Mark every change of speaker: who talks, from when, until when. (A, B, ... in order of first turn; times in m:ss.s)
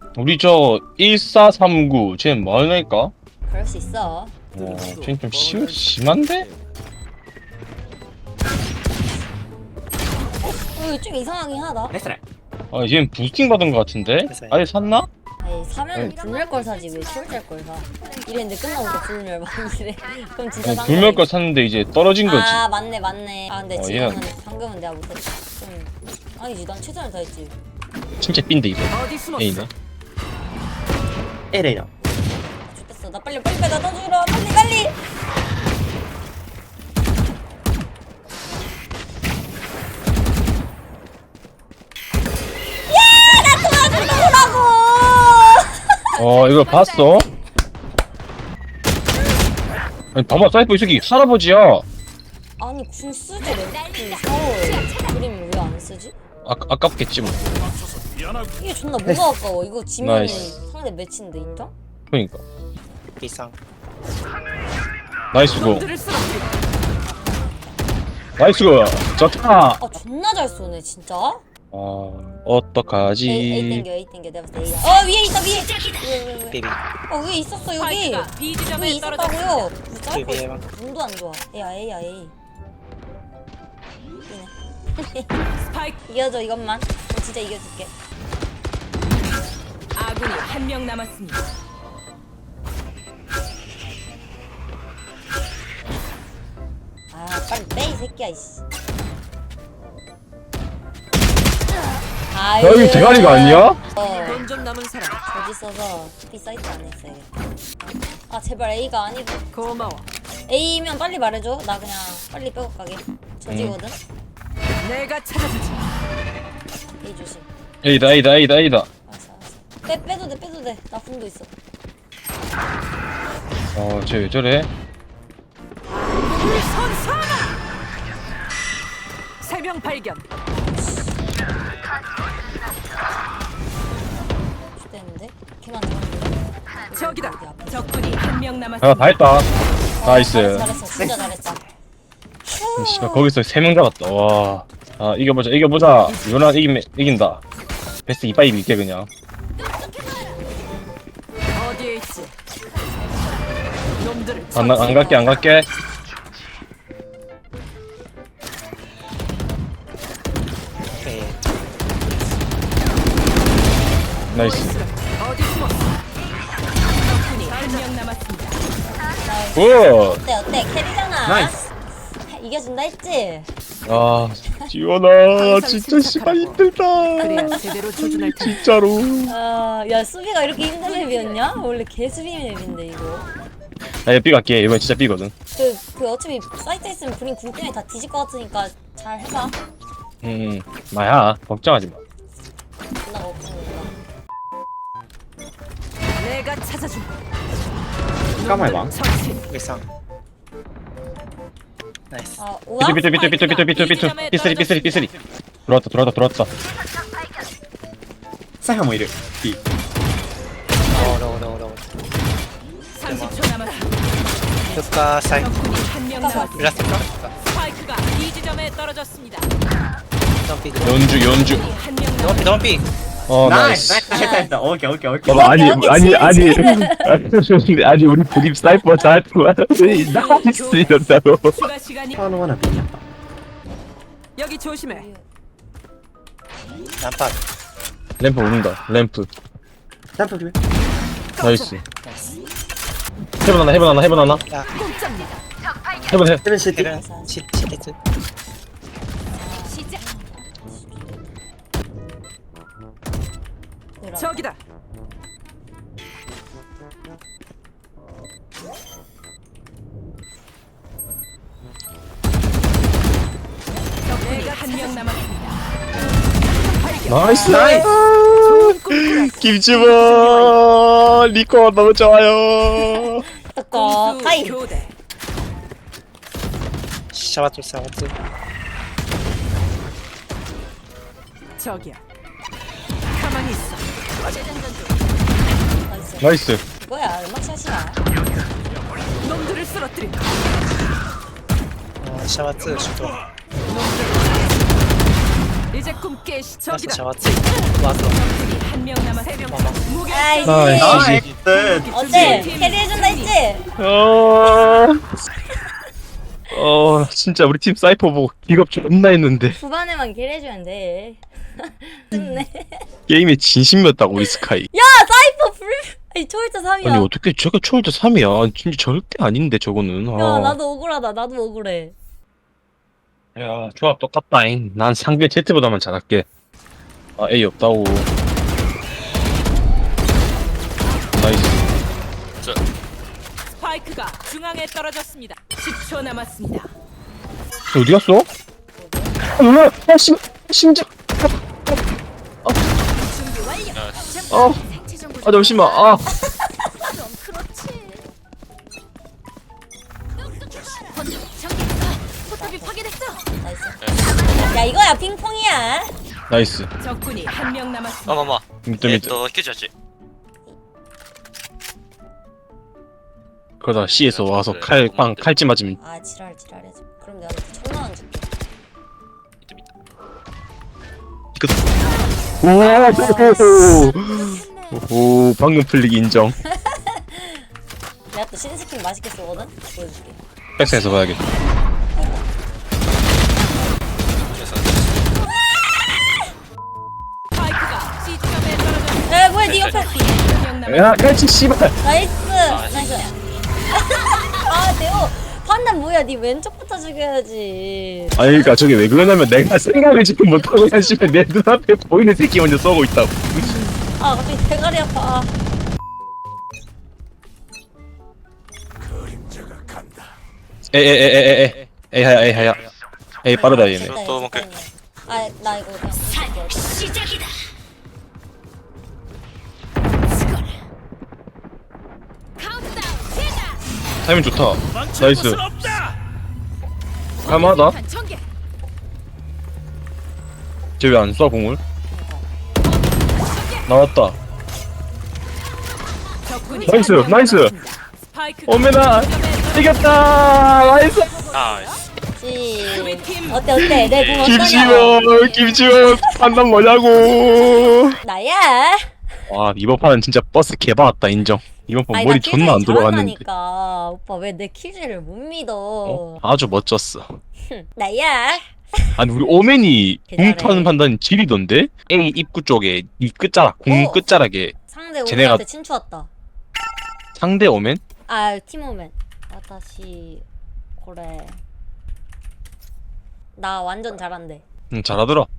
0:00.2-0:03.1 A
0:03.5-0:04.4 B
0:04.5-0:06.5 A
0:10.4-0:12.0 B
0:11.9-0:12.2 C
0:12.7-0:15.1 A
0:14.2-0:14.6 D
0:15.4-0:21.3 B
0:20.6-0:22.6 A
0:22.2-0:27.5 B
0:23.7-0:24.2 A
0:28.2-0:29.7 A
0:29.0-0:29.4 E
0:31.5-0:31.9 C
0:32.1-0:35.0 B
0:42.9-0:46.0 B
0:46.2-0:47.3 A
0:50.1-0:51.8 A
0:52.6-0:56.1 B
0:56.4-0:57.5 A
0:58.6-1:01.7 B
1:00.0-1:00.5 A
1:02.1-1:02.4 A
1:03.2-1:03.6 D
1:05.3-1:05.9 A
1:05.8-1:06.4 E
1:06.9-1:07.8 B
1:08.4-1:09.8 A
1:09.8-1:11.4 B
1:11.7-1:13.8 A
1:13.2-1:22.3 B
1:16.5-1:16.8 D
1:18.0-1:19.6 E
1:20.1-1:20.6 D
1:24.3-1:25.4 B
1:26.0-1:27.9 B
1:30.0-1:31.4 E
1:37.1-1:38.6 B
1:42.3-1:44.4 B
1:42.6-1:43.8 A
1:44.4-1:45.1 E
1:45.2-1:47.3 B
1:48.3-1:49.7 B
1:49.6-1:50.0 E
1:50.5-1:54.0 B
1:53.5-1:53.8 A
1:54.8-1:55.8 E
1:56.9-1:57.5 B
1:57.8-1:58.9 A
1:59.1-2:01.5 B
2:03.7-2:04.7 A
2:06.2-2:07.6 E
2:09.4-2:10.2 E
2:10.8-2:11.1 B
2:14.7-2:18.3 B
2:18.8-2:19.5 A
2:20.0-2:21.6 B
2:20.0-2:20.7 A
2:22.4-2:23.3 B
2:22.8-2:27.4 A
2:28.0-2:29.1 A
2:31.6-2:32.3 E
2:34.0-2:34.8 E
2:34.5-2:35.7 A
2:34.6-2:35.4 B
2:41.0-2:41.4 D
2:44.3-2:44.8 A
2:44.4-2:45.7 E
2:47.2-2:48.5 E
2:49.0-2:53.5 B
2:49.6-2:50.2 A
2:51.2-2:51.6 C
2:53.9-2:59.4 A
2:55.4-2:56.6 E
2:57.2-2:58.5 E
2:57.2-2:57.5 B
2:59.3-3:03.3 B
3:04.0-3:05.3 A
3:05.5-3:09.6 B
3:10.2-3:12.0 A
3:13.0-3:13.9 B
3:16.2-3:17.1 E
3:18.3-3:19.0 C
3:18.6-3:19.4 E
3:19.5-3:19.9 D
3:22.1-3:22.4 D
3:22.4-3:23.7 B
3:22.8-3:25.1 A
3:23.4-3:24.8 E
3:25.7-3:26.5 A
3:28.6-3:29.6 C
3:30.9-3:31.8 D
3:33.0-3:33.9 E
3:33.0-3:33.5 D
3:34.7-3:35.6 D
3:35.4-3:36.5 E
3:36.2-3:36.6 B
3:36.5-3:37.3 D
3:37.5-3:39.5 E
3:40.4-3:41.1 D
3:40.8-3:41.7 A
3:41.5-3:42.4 E
3:42.2-3:42.8 D
3:43.3-3:44.0 A
3:43.4-3:45.6 C
3:44.1-3:44.6 B
3:45.2-3:51.7 A
3:45.3-3:47.1 B
3:50.0-3:50.9 E
3:51.6-3:52.1 E
3:52.1-3:53.0 C
3:54.4-3:55.0 E
3:54.8-3:55.2 B
3:57.0-3:57.4 D
3:58.2-3:59.3 A
4:00.2-4:00.6 C
4:01.4-4:01.8 E
4:01.4-4:01.8 A
4:02.0-4:02.4 D
4:03.4-4:04.4 A
4:04.4-4:04.7 D
4:04.7-4:05.4 E
4:06.1-4:06.4 A
4:06.4-4:06.9 C
4:06.7-4:08.0 D
4:06.9-4:07.4 B
4:09.3-4:11.2 B
4:14.0-4:14.4 B
4:14.2-4:14.5 E
4:24.0-4:25.5 E
4:26.7-4:27.8 E
4:27.1-4:33.3 A
4:27.5-4:27.9 C
4:28.4-4:30.6 E
4:33.4-4:34.6 B
4:33.7-4:34.9 E
4:37.1-4:38.1 D
4:41.6-4:42.0 E
4:43.1-4:45.0 E
4:45.8-4:48.0 B
4:46.2-4:46.6 A
4:49.3-4:50.3 E
4:52.0-4:53.2 D
4:55.7-4:56.8 E
4:56.7-4:58.2 D
4:58.2-5:01.0 E
4:59.4-4:59.8 D
5:00.1-5:01.2 B
5:00.4-5:01.3 A
5:00.7-5:01.9 C
5:01.7-5:03.2 E
5:01.9-5:03.6 B
5:02.1-5:02.5 A
5:03.8-5:05.0 A
5:06.5-5:09.6 A
5:09.6-5:12.9 B
5:13.1-5:14.7 A
5:14.7-5:17.1 B
5:16.8-5:20.6 A
5:20.1-5:21.9 B
5:23.4-5:26.2 A
5:27.2-5:28.1 A
5:31.1-5:31.7 A
5:33.6-5:36.7 E
5:37.7-5:38.3 A
5:38.7-5:39.2 B
5:39.3-5:40.9 A
5:43.1-5:45.7 E
5:43.7-5:44.0 F
5:44.3-5:44.6 A
5:45.2-5:46.1 A
5:46.9-5:48.0 E
5:50.8-5:53.1 E
5:52.3-5:53.8 B
5:53.8-5:54.4 F
5:54.3-5:55.9 B
5:56.3-5:56.7 A
5:56.8-5:58.1 E
5:58.0-5:59.7 F
5:58.6-5:59.2 A
6:03.6-6:05.8 A
6:04.0-6:05.3 F
6:05.8-6:08.3 B
6:11.3-6:11.6 A
6:12.4-6:16.4 A
6:12.5-6:14.8 B
6:16.4-6:17.4 B
6:18.1-6:20.2 B
6:20.6-6:21.2 A
6:21.9-6:22.3 B
6:24.3-6:24.9 F
6:27.4-6:29.1 E
6:29.0-6:30.1 B
6:29.6-6:30.5 E
6:30.6-6:31.7 A
6:31.8-6:33.1 B
6:32.6-6:32.9 F
6:33.7-6:38.6 B
6:38.2-6:43.6 A
6:43.7-6:45.3 B
6:50.7-6:52.7 A
6:53.2-6:54.0 A
6:53.3-6:56.9 B
6:53.9-6:54.4 F
7:02.4-7:03.6 E
7:04.0-7:05.6 A
7:07.2-7:07.8 A
7:07.3-7:08.2 E
7:10.8-7:11.6 A
7:11.9-7:12.3 B
7:13.2-7:13.6 E
7:13.7-7:14.2 A
7:16.2-7:19.9 E
7:16.6-7:17.6 A
7:18.4-7:21.3 A
7:21.1-7:21.8 E
7:21.3-7:21.7 F
7:22.2-7:25.1 B
7:22.9-7:23.4 E
7:23.6-7:28.0 A
7:24.0-7:24.3 F
7:25.9-7:26.4 B
7:28.0-7:29.0 B
7:29.3-7:33.2 A
7:31.9-7:36.2 B
7:35.8-7:37.2 A
7:37.5-7:39.0 B
7:39.0-7:44.5 A
7:40.1-7:40.8 B
7:43.6-7:44.1 B
7:44.6-7:46.1 B
7:45.0-7:45.4 A
7:47.2-7:47.8 A
7:48.1-7:50.2 B
7:50.8-7:51.4 B
7:53.3-7:54.4 B
7:54.7-7:55.3 A